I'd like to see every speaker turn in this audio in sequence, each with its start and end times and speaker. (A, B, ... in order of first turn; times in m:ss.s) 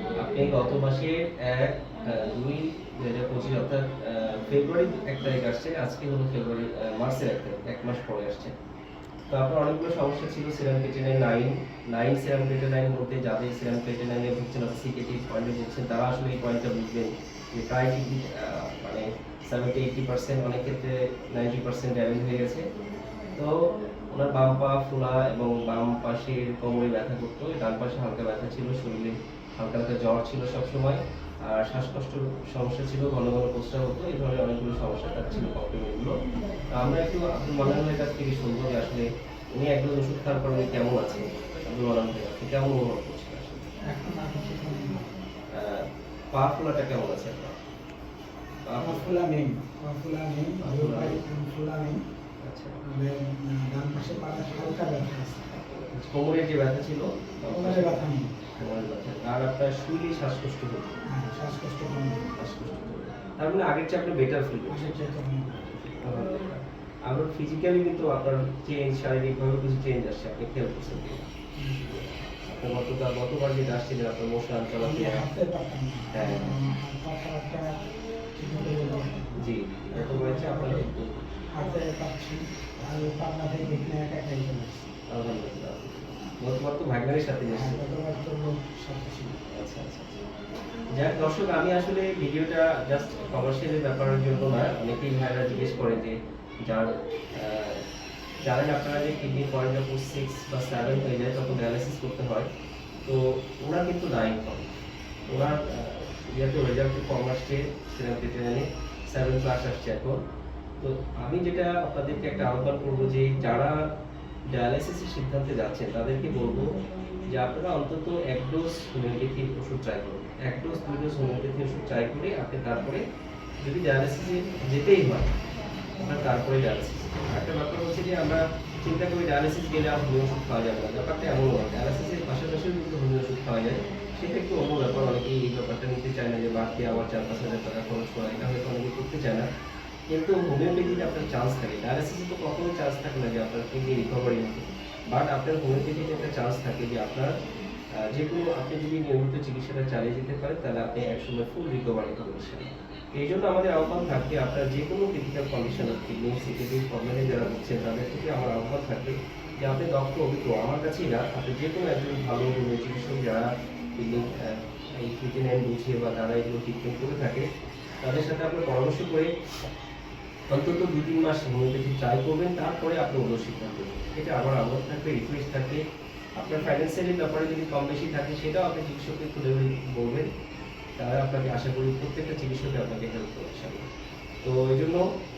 0:00.2-0:08.5 A
0:09.3-0:22.6 A
0:23.3-0:36.2 A
0:36.7-0:43.7 A
0:43.9-0:45.1 B
0:45.6-0:47.5 A
0:48.6-0:49.1 A
0:48.8-0:52.0 B
0:50.6-0:51.2 A
0:52.4-0:52.8 A
0:52.8-0:55.6 B
0:55.9-0:58.0 A
0:57.5-0:58.5 B
0:58.6-1:00.9 A
1:01.1-1:02.3 B
1:02.4-1:05.1 A
1:04.7-1:06.0 B
1:05.8-1:11.3 A
1:11.6-1:11.9 B
1:11.9-1:15.2 A
1:14.8-1:17.8 B
1:16.1-1:16.5 A
1:18.3-1:19.4 B
1:19.4-1:21.3 A
1:19.9-1:20.8 B
1:21.5-1:24.9 B
1:25.1-1:27.8 A
1:27.5-1:29.4 B
1:29.4-1:30.2 A
1:30.9-1:37.8 A
1:38.4-1:42.5 A
1:43.0-1:44.7 A
1:45.3-1:50.2 A
1:50.8-1:53.8 A
1:54.5-1:56.7 A
1:57.3-2:03.0 A
2:03.6-2:05.3 A
2:06.0-2:19.4 A
2:20.1-2:27.3 A
2:28.0-2:47.4 A
2:48.0-2:49.3 A
2:50.5-2:55.8 A
2:56.4-3:00.3 A
3:01.0-3:03.9 A
3:04.4-3:05.0 A